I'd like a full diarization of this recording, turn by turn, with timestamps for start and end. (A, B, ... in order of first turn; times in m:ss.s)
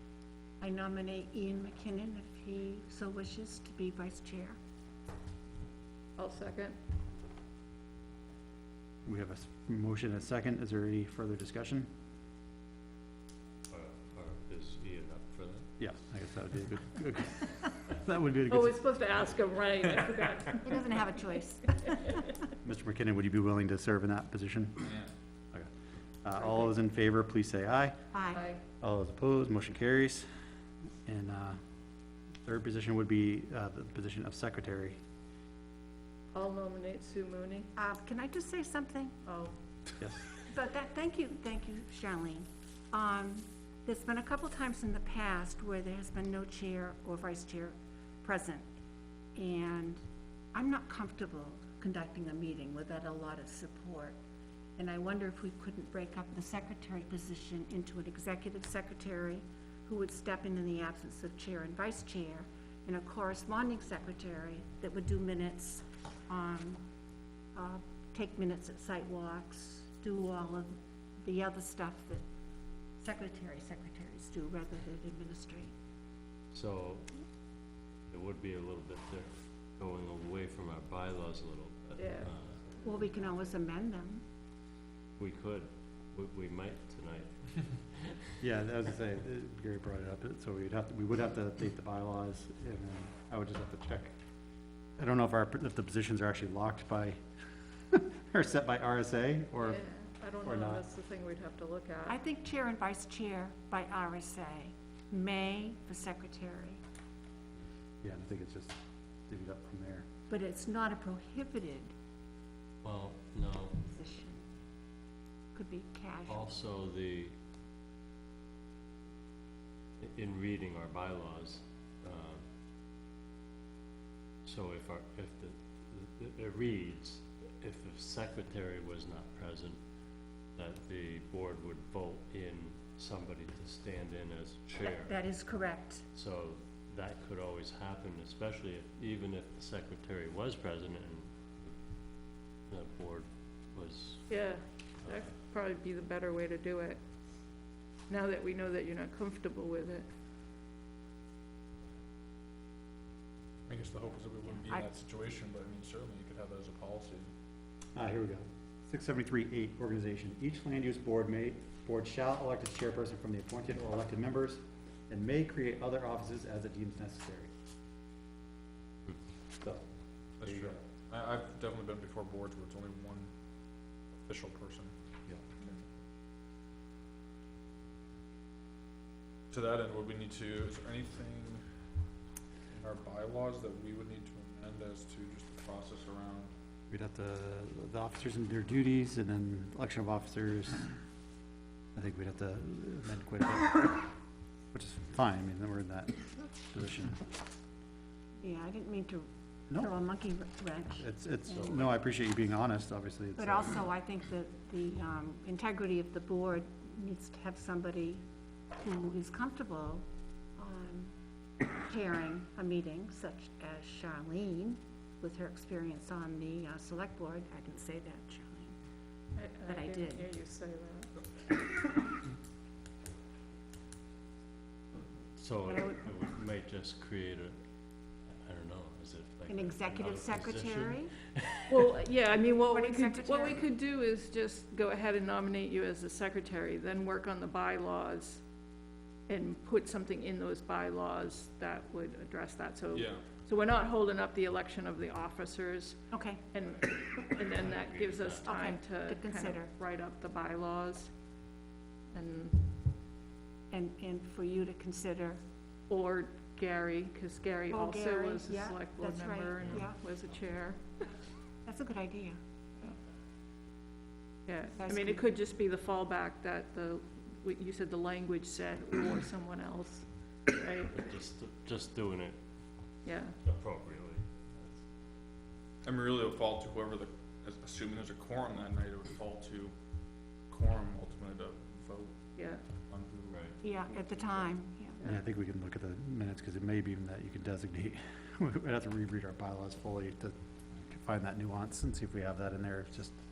0:00.6-0:04.6 A
0:06.2-0:06.8 B
0:09.0-0:11.9 C
0:13.7-0:15.7 D
0:15.8-0:18.8 C
0:18.5-0:20.8 B
0:20.6-0:22.2 A
0:22.6-0:24.8 C
0:24.8-0:25.1 E
0:26.2-0:28.1 C
0:28.1-0:28.5 A
0:28.3-0:28.6 B
0:28.6-0:30.3 C
0:31.0-0:31.6 C
0:32.4-0:35.0 C
0:36.3-0:37.7 B
0:37.7-0:39.2 A
0:39.2-0:39.6 B
0:40.0-0:40.2 C
0:40.4-0:48.6 A
0:49.4-0:50.0 A
0:50.5-0:54.2 A
0:54.8-1:06.8 A
1:07.5-1:12.2 A
1:13.0-1:15.7 A
1:16.5-1:17.1 D
1:18.1-1:22.7 D
1:22.0-1:22.3 B
1:22.8-1:24.2 A
1:25.2-1:28.3 D
1:28.4-1:34.1 C
1:35.0-1:37.2 C
1:37.9-1:39.8 C
1:39.6-1:42.2 B
1:40.4-1:40.8 C
1:42.0-1:46.8 A
1:48.0-1:50.1 C
1:50.3-1:51.9 A
1:52.8-1:53.8 D
1:53.8-1:54.4 A
1:55.5-1:56.5 A
1:56.3-1:57.3 D
2:00.0-2:02.4 D
2:04.4-2:09.8 D
2:10.5-2:15.2 D
2:14.8-2:16.0 A
2:16.1-2:21.8 D
2:22.7-2:24.4 D
2:24.3-2:27.0 B
2:25.0-2:25.4 D
2:28.1-2:30.0 B
2:33.7-2:37.3 E
2:37.9-2:47.5 C
2:49.6-2:49.8 C
2:50.4-2:53.3 E
2:50.4-2:50.8 C
2:54.2-2:54.9 E
2:59.5-3:01.6 E
3:02.7-3:06.5 E
3:06.9-3:10.9 C
3:11.9-3:14.1 C
3:14.7-3:17.2 C
3:18.4-3:21.6 A
3:21.0-3:23.8 C
3:23.4-3:28.2 A
3:28.8-3:30.0 A
3:30.6-3:31.1 A
3:31.8-3:38.7 A
3:39.3-3:41.2 B
3:39.6-3:40.3 A
3:45.4-3:47.6 D
3:48.3-3:52.0 D
3:49.5-3:51.1 A
3:51.7-3:58.4 B
3:52.7-3:53.6 A
3:59.3-4:06.0 B
4:02.9-4:03.2 E
4:06.1-4:06.4 A
4:06.5-4:11.1 B
4:07.4-4:08.5 D
4:08.4-4:09.7 A
4:12.1-4:12.7 B
4:13.7-4:15.4 A
4:15.9-4:20.9 B
4:17.7-4:20.0 A
4:21.6-4:22.4 A
4:24.4-4:31.1 B
4:24.8-4:25.2 A
4:30.9-4:32.4 D
4:33.0-4:33.4 B
4:33.4-4:34.8 D
4:35.8-4:39.7 E
4:40.5-4:42.3 E
4:42.4-4:42.6 B
4:42.9-4:44.1 E
4:43.3-4:43.6 D
4:43.6-4:45.1 A
4:45.0-4:53.2 C